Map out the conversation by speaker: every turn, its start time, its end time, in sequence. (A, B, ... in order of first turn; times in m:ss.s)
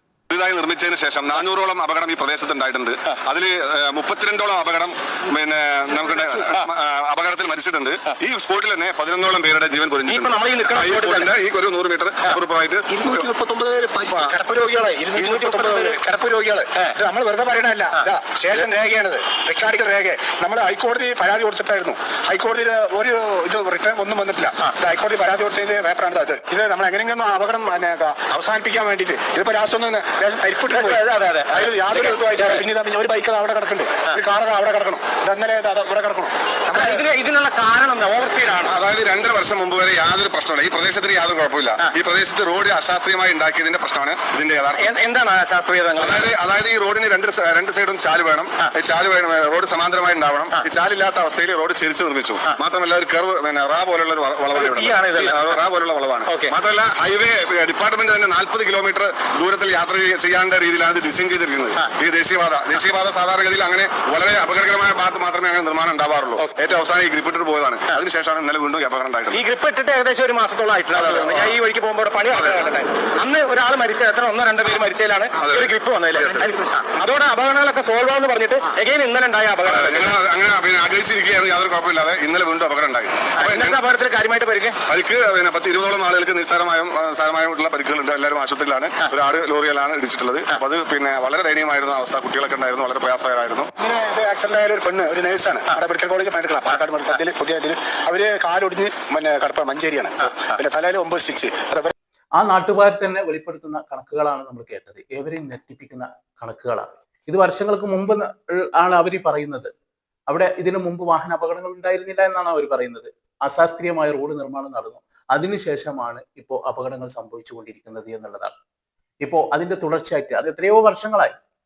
0:00.3-0:13.3 A
0:10.1-0:11.3 B
0:12.9-0:37.0 C
0:15.2-0:16.0 B
0:30.7-0:32.6 B
0:36.7-0:38.7 B
0:38.6-0:44.9 A
0:44.8-0:46.3 B
0:46.0-1:09.4 A
0:54.5-0:55.6 B
0:56.3-0:56.5 B
1:09.3-1:20.2 B
1:11.0-1:11.6 A
1:12.3-1:12.6 A
1:15.4-1:16.5 A
1:19.6-1:23.8 A
1:23.4-1:24.8 B
1:24.9-1:33.7 A
1:33.8-1:41.9 C
1:42.4-1:49.7 D
1:50.3-1:58.6 D
1:59.2-2:01.3 D